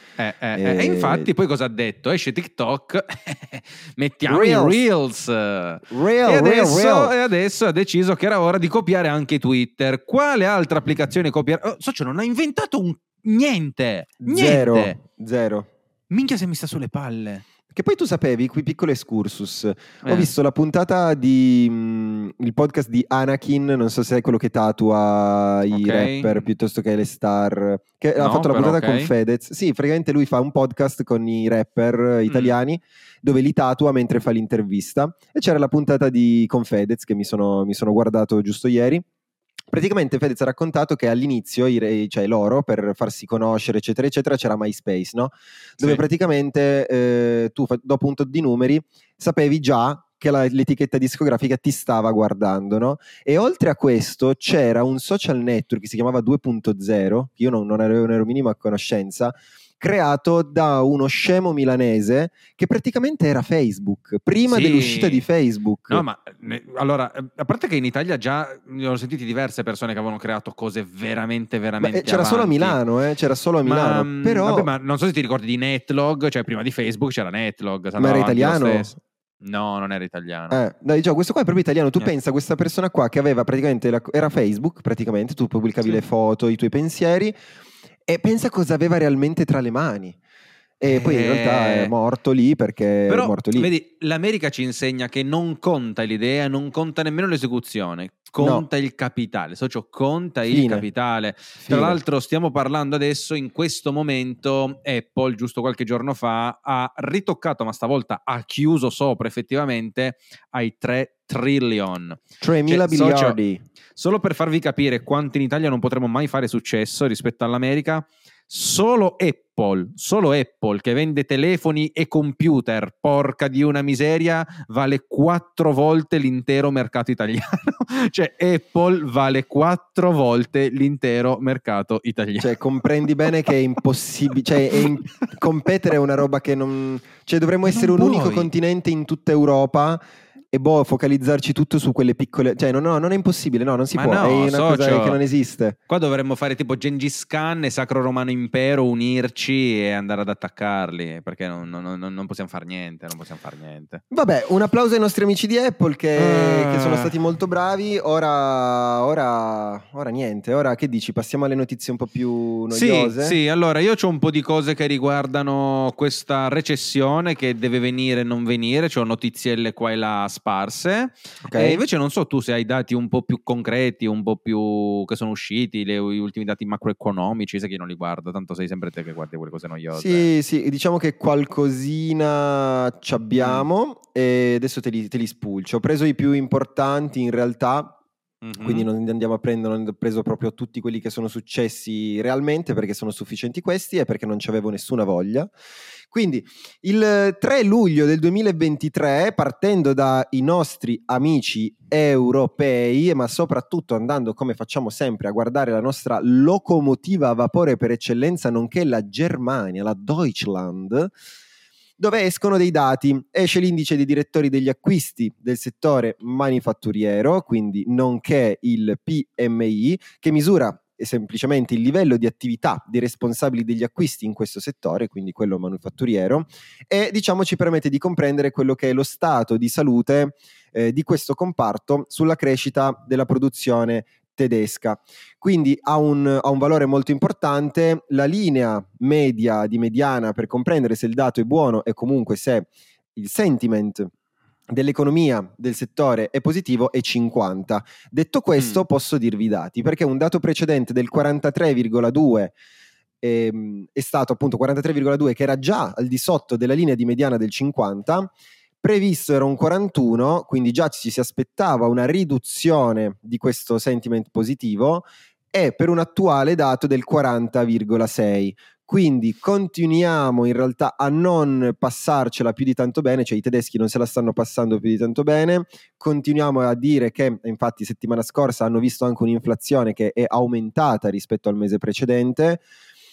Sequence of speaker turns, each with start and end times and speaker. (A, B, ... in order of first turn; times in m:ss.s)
0:00.2-0:15.0 A
0:00.5-0:01.3 B
0:04.3-0:04.8 B
0:05.9-0:07.1 B
0:14.2-0:15.7 B
0:16.1-0:17.4 A
0:17.7-0:39.0 B
0:20.0-0:20.3 A
0:25.7-0:26.5 A
0:28.2-0:29.1 A
0:32.3-0:32.5 A
0:39.7-1:06.0 B
1:04.4-1:05.2 A
1:05.9-1:12.8 A
1:11.8-1:14.7 B
1:13.6-1:20.6 A
1:18.0-1:19.0 B
1:20.5-1:27.3 B
1:28.1-1:30.2 B
1:30.8-1:33.7 B
1:30.8-1:31.9 A
1:33.1-1:53.4 A
1:38.4-1:38.6 B
1:40.5-1:40.8 B
1:41.6-1:42.0 B
1:52.4-1:53.6 B
1:54.0-2:12.5 A
2:12.4-2:20.0 B
2:17.6-2:18.5 A
2:20.5-2:25.8 B
2:23.9-2:25.2 A
2:25.9-2:34.0 A
2:34.1-2:43.4 B
2:36.2-2:37.1 A
2:42.7-3:00.3 A
2:51.4-2:51.8 B
2:59.9-3:08.0 B
3:03.4-3:03.7 A
3:08.4-3:08.9 A
3:08.6-3:15.5 B
3:16.1-3:31.1 B
3:32.0-4:04.1 B
4:04.7-4:12.5 B
4:13.2-4:42.6 B